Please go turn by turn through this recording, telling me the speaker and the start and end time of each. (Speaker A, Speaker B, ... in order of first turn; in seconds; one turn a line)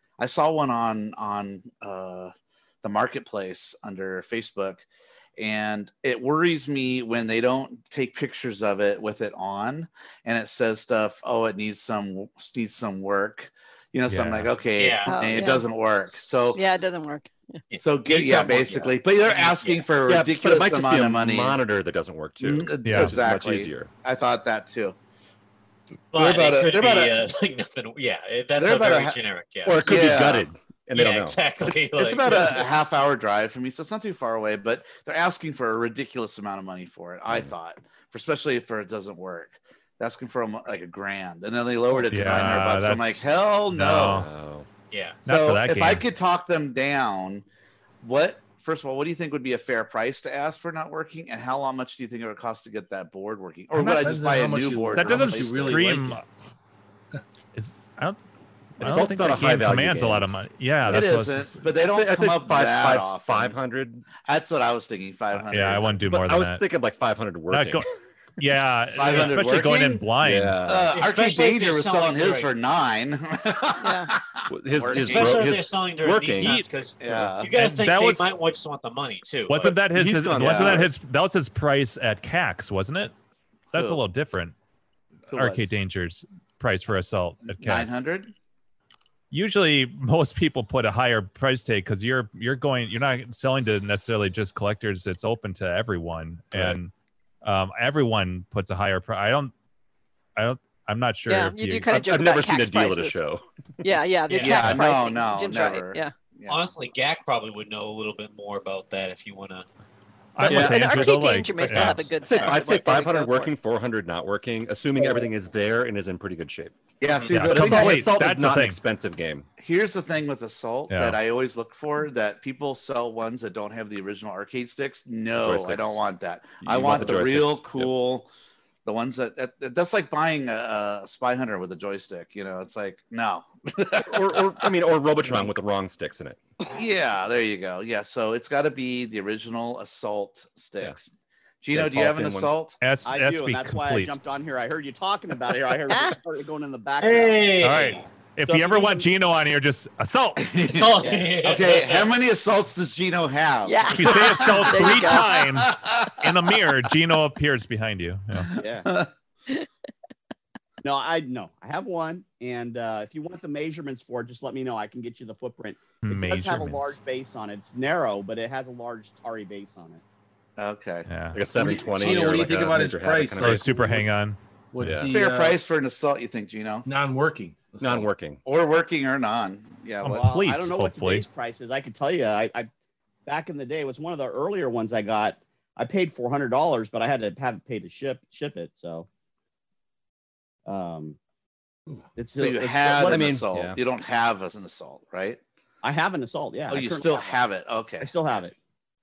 Speaker A: 0.2-16.6
Speaker B: 14.1-14.5
Speaker C: 14.8-15.3
Speaker D: 15.0-15.7
Speaker D: 16.3-17.6
Speaker C: 17.7-19.8
Speaker A: 17.8-21.6
Speaker E: 20.1-23.9
Speaker A: 22.4-25.0
Speaker B: 22.8-23.1
Speaker A: 26.1-27.2
Speaker C: 26.1-29.8
Speaker A: 28.6-29.2
Speaker E: 29.6-31.4
Speaker A: 29.8-30.5
Speaker C: 30.9-32.6
Speaker A: 31.9-44.2
Speaker B: 42.1-44.3
Speaker E: 44.0-44.7
Speaker C: 44.9-45.2
Speaker A: 45.2-47.4
Speaker B: 45.2-46.0
Speaker A: 48.0-55.8
Speaker F: 53.7-56.2
Speaker B: 54.9-56.2
Speaker B: 57.5-58.2
Speaker B: 58.8-61.6
Speaker E: 58.8-60.3
Speaker A: 60.9-63.6
Speaker E: 61.8-64.0
Speaker A: 64.2-66.0
Speaker B: 65.5-66.6
Speaker E: 66.0-67.8
Speaker B: 67.5-67.9
Speaker B: 68.4-70.6
Speaker A: 69.0-70.1
Speaker E: 70.2-70.9
Speaker A: 70.6-75.6
Speaker C: 70.9-72.5
Speaker D: 73.8-74.1
Speaker E: 74.5-77.3
Speaker C: 74.9-79.7
Speaker B: 76.4-76.7
Speaker A: 77.0-77.5
Speaker B: 77.5-78.3
Speaker B: 79.5-83.1
Speaker E: 79.8-80.9
Speaker A: 80.3-80.9
Speaker B: 83.7-84.5
Speaker A: 83.7-84.0
Speaker A: 85.3-85.7
Speaker B: 85.3-88.0
Speaker A: 87.4-88.3
Speaker B: 89.3-96.9
Speaker E: 96.5-96.8
Speaker B: 97.4-99.5
Speaker B: 100.3-101.9
Speaker D: 101.3-103.2
Speaker E: 101.9-103.4
Speaker D: 103.8-106.1
Speaker C: 104.3-104.6
Speaker A: 104.4-106.7
Speaker C: 106.5-109.7
Speaker B: 110.3-112.1
Speaker E: 110.4-119.5
Speaker D: 110.4-113.5
Speaker C: 112.3-112.8
Speaker A: 117.0-118.1
Speaker B: 117.3-118.8
Speaker A: 119.6-128.3
Speaker B: 120.9-121.2
Speaker E: 125.4-126.0
Speaker E: 126.6-127.9
Speaker A: 128.8-134.6
Speaker E: 134.0-136.4
Speaker A: 136.7-142.8
Speaker E: 141.7-142.5
Speaker B: 142.8-144.1
Speaker G: 143.0-147.7
Speaker D: 145.9-146.2
Speaker C: 147.0-148.0
Speaker B: 147.6-150.5
Speaker G: 148.4-149.1
Speaker A: 150.4-156.3
Speaker C: 150.7-152.1
Speaker G: 151.0-151.3
Speaker D: 153.6-155.3
Speaker B: 153.9-158.5
Speaker A: 158.4-159.1
Speaker G: 158.6-158.9
Speaker G: 160.8-170.0
Speaker B: 166.0-166.9
Speaker A: 170.6-171.1
Speaker B: 171.1-171.4
Speaker E: 171.3-173.8
Speaker F: 171.4-174.2
Speaker B: 173.4-175.0
Speaker F: 174.7-175.6
Speaker E: 174.8-175.1
Speaker A: 175.1-176.9
Speaker F: 176.8-178.1
Speaker E: 177.8-178.4
Speaker A: 178.4-180.3
Speaker B: 180.0-181.2
Speaker G: 180.0-182.7
Speaker G: 183.2-189.1
Speaker G: 190.7-191.2
Speaker G: 192.2-193.4
Speaker A: 192.3-195.4
Speaker E: 193.0-193.8
Speaker G: 195.8-197.4
Speaker A: 196.7-198.1
Speaker G: 198.0-198.5